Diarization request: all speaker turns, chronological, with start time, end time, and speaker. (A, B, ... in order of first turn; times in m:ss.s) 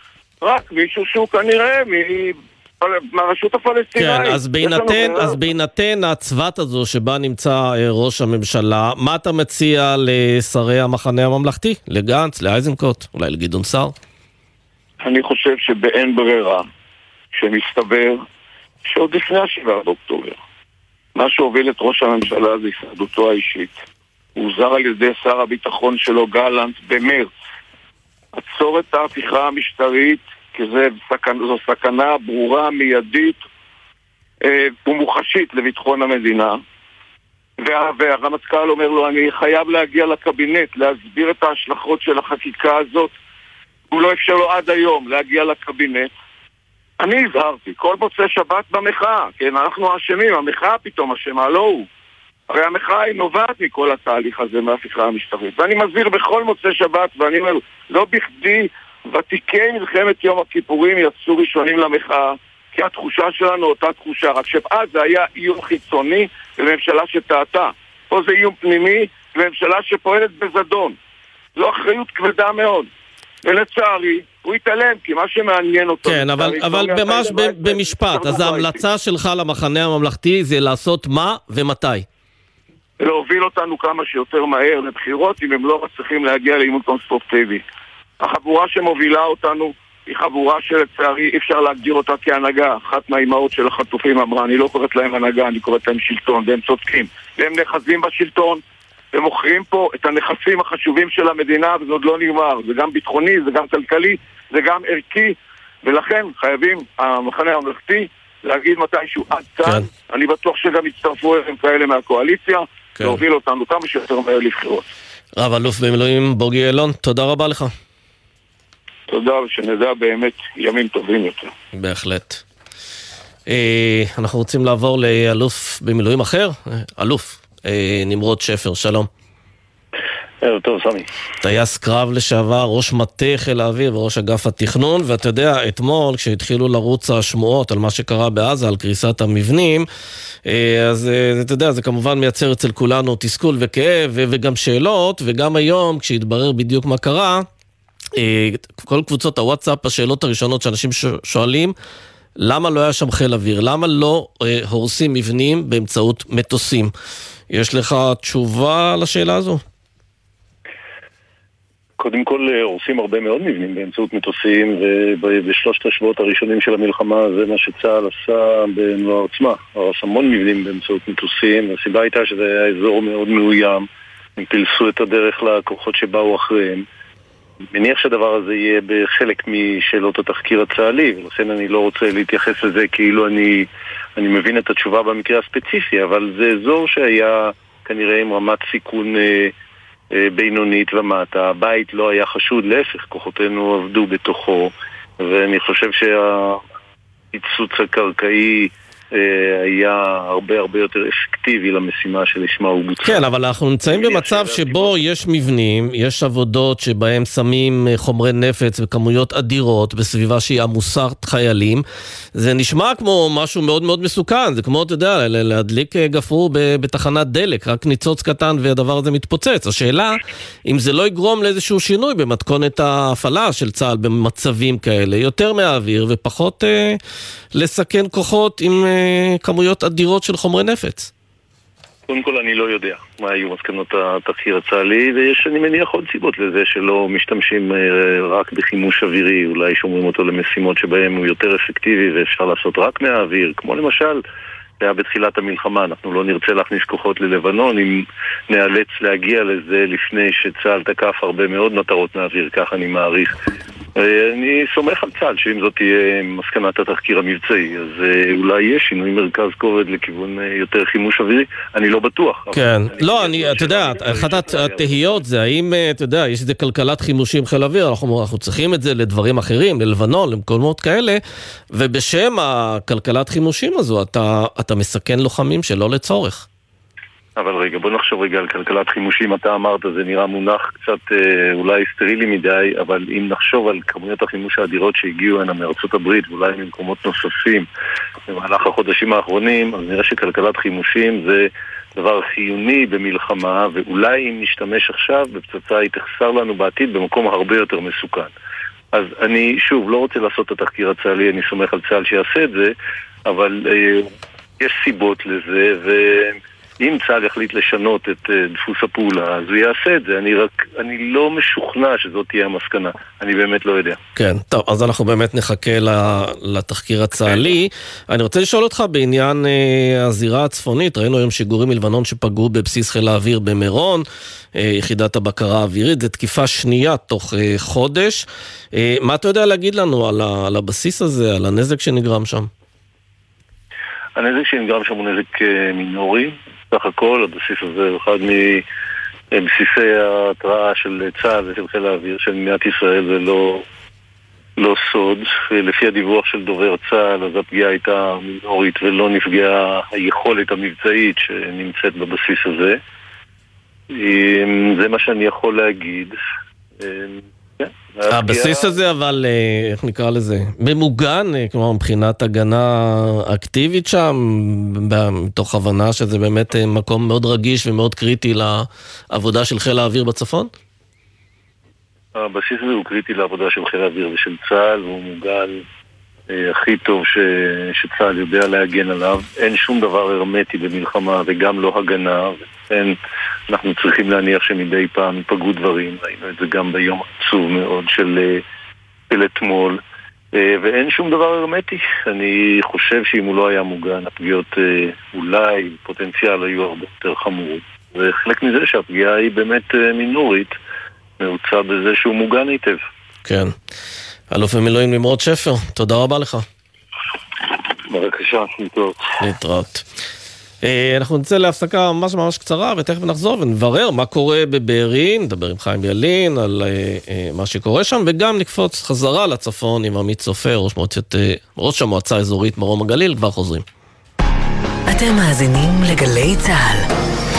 0:00.4-0:05.4 A
0:04.0-0:13.9 B
0:15.0-0:16.6 A
0:17.3-0:18.2 A
0:18.8-0:20.4 A
0:21.2-0:23.8 A
0:24.4-0:27.3 A
0:28.3-0:33.4 A
0:34.4-0:36.6 A
0:37.6-0:43.1 A
0:43.9-0:46.1 A
0:47.0-0:51.9 A
0:52.5-1:11.0 A
1:11.6-1:12.9 A
1:13.4-1:18.8 A
1:16.0-1:22.0 B
1:23.0-1:27.6 A
1:28.2-1:38.6 A
1:39.1-1:54.9 A
1:55.4-1:57.7 B
1:59.1-2:01.5 A
2:01.7-2:02.4 B
2:03.5-2:09.1 B
2:10.4-2:11.1 C
2:11.4-2:19.8 B
2:20.4-2:27.4 B
2:28.2-2:31.7 B
2:32.4-2:36.9 B
2:37.5-2:39.6 B
2:42.0-2:53.9 C
2:54.4-2:56.8 C
2:57.7-3:09.5 C
3:10.1-3:16.6 C
3:17.3-3:23.2 C
3:23.0-3:31.8 B
3:23.9-3:25.0 C
3:32.4-3:47.0 B
3:47.5-3:51.1 B
3:52.1-4:04.2 C
4:04.8-4:13.3 C
4:14.0-4:25.2 C
4:22.5-4:31.2 B
4:31.7-4:36.4 B
4:37.4-4:47.7 C
4:48.3-4:58.3 C
4:58.9-5:02.7 C
5:03.3-5:14.0 C
5:14.2-5:32.5 B
5:34.2-5:38.6 C
5:39.3-5:43.6 C
5:44.6-5:52.8 C
5:53.9-5:56.2 C
5:56.8-5:58.8 C
5:58.1-6:10.5 B
6:12.2-6:15.6 C
6:16.3-6:23.0 C
6:23.5-6:28.4 C
6:29.1-6:29.8 C
6:30.3-6:40.6 C
6:41.2-6:42.8 C
6:43.2-6:43.5 B
6:44.3-6:46.4 B
6:47.9-6:49.0 C
6:49.2-6:49.9 B
6:50.6-7:03.6 B
7:04.9-7:06.8 D